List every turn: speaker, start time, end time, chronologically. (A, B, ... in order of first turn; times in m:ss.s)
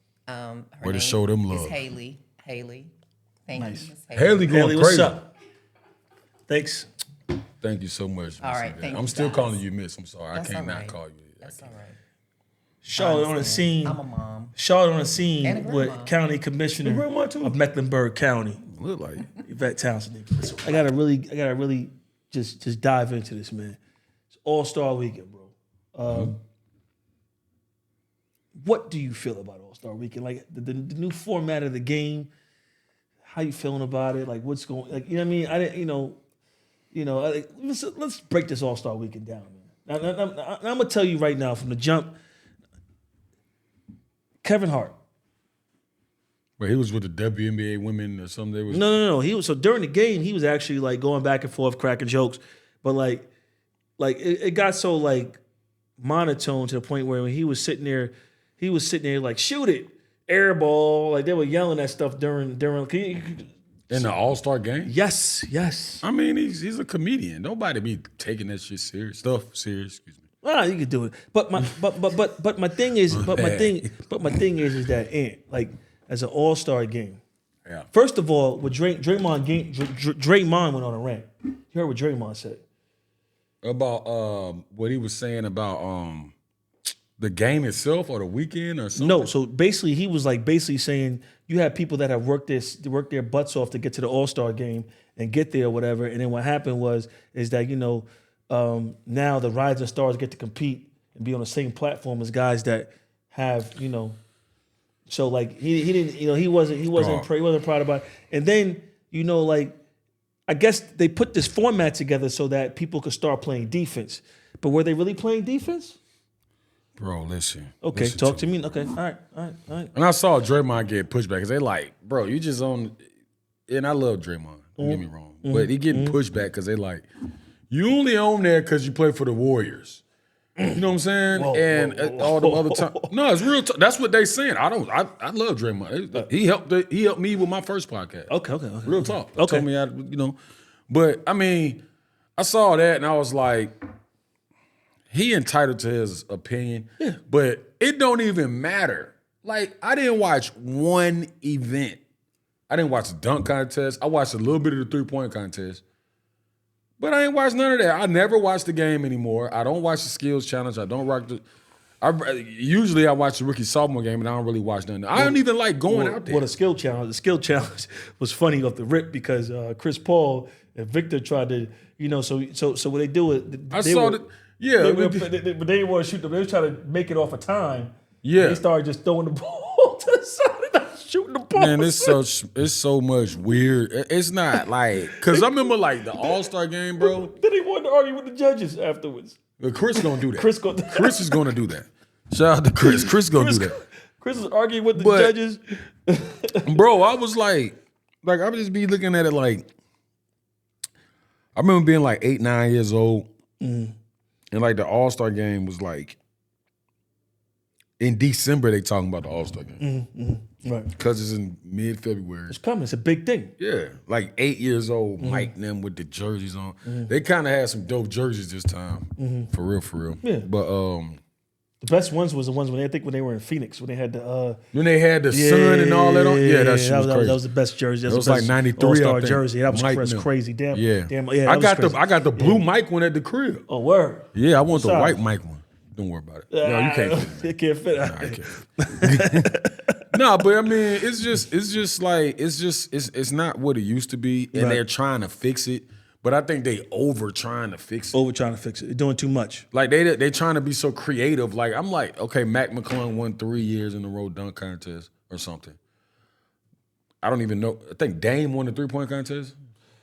0:00.3-0:02.9 A
0:00.8-0:01.8 B
0:03.4-0:04.5 A
0:03.6-0:03.9 C
0:04.1-0:05.2 B
0:04.5-0:05.3 C
0:06.5-0:06.9 C
0:07.6-0:11.7 B
0:08.4-0:09.6 A
0:10.3-0:12.0 A
0:12.8-0:14.0 C
0:12.9-0:14.5 A
0:14.6-0:18.6 C
0:15.4-0:16.2 A
0:16.8-0:17.6 B
0:18.6-0:19.3 B
0:19.4-0:23.8 C
0:24.4-0:26.4 C
0:26.1-0:26.3 B
0:28.6-0:32.3 C
0:33.2-0:36.2 C
0:36.9-0:42.1 C
0:44.4-0:44.9 C
0:46.6-0:48.9 B
0:48.7-0:53.3 C
0:54.0-0:55.4 C
0:56.0-1:04.1 C
1:03.9-1:04.9 B
1:04.8-1:06.0 C
1:06.0-1:10.2 B
1:10.4-1:17.2 C
1:13.1-1:14.4 B
1:17.9-1:22.6 C
1:23.6-1:26.3 B
1:27.2-1:29.3 B
1:28.9-1:44.2 C
1:45.1-1:49.8 C
1:46.9-1:47.3 B
1:50.5-1:56.0 C
1:57.0-1:58.5 B
1:57.8-1:59.9 C
1:59.9-2:03.0 B
2:03.7-2:07.0 B
2:04.8-2:06.2 C
2:07.7-2:10.0 B
2:10.7-2:18.3 B
2:11.3-2:13.1 C
2:18.3-2:19.6 C
2:18.8-2:20.4 B
2:20.9-2:21.8 B
2:22.4-2:23.7 B
2:25.1-2:32.0 B
2:32.7-2:35.8 B
2:37.0-2:41.4 B
2:42.0-2:46.5 B
2:45.1-2:54.2 C
2:53.7-2:55.3 B
2:54.8-3:02.2 C
2:58.2-2:58.6 B
3:01.5-3:07.3 B
3:04.6-3:05.5 C
3:07.0-3:09.4 C
3:09.6-3:13.8 B
3:09.9-3:11.5 C
3:12.8-3:16.6 C
3:14.9-3:15.3 B
3:16.6-3:19.7 B
3:21.5-3:23.3 B
3:23.6-3:23.9 C
3:24.5-3:26.2 B
3:28.0-3:29.8 B
3:29.8-3:30.9 C
3:30.9-3:32.6 B
3:32.5-3:33.5 C
3:33.6-3:41.2 B
3:35.2-3:35.5 C
3:36.8-3:37.1 C
3:39.2-3:39.5 C
3:40.2-3:40.5 C
3:41.8-3:44.6 C
3:44.7-3:47.4 B
3:45.3-3:52.6 C
3:48.0-3:53.6 B
3:53.7-3:55.2 C
3:54.3-3:59.5 B
3:56.5-3:59.9 C
4:00.1-4:08.2 B
4:04.5-4:04.8 C
4:08.1-4:09.6 C
4:09.7-4:15.8 B
4:17.2-4:19.5 B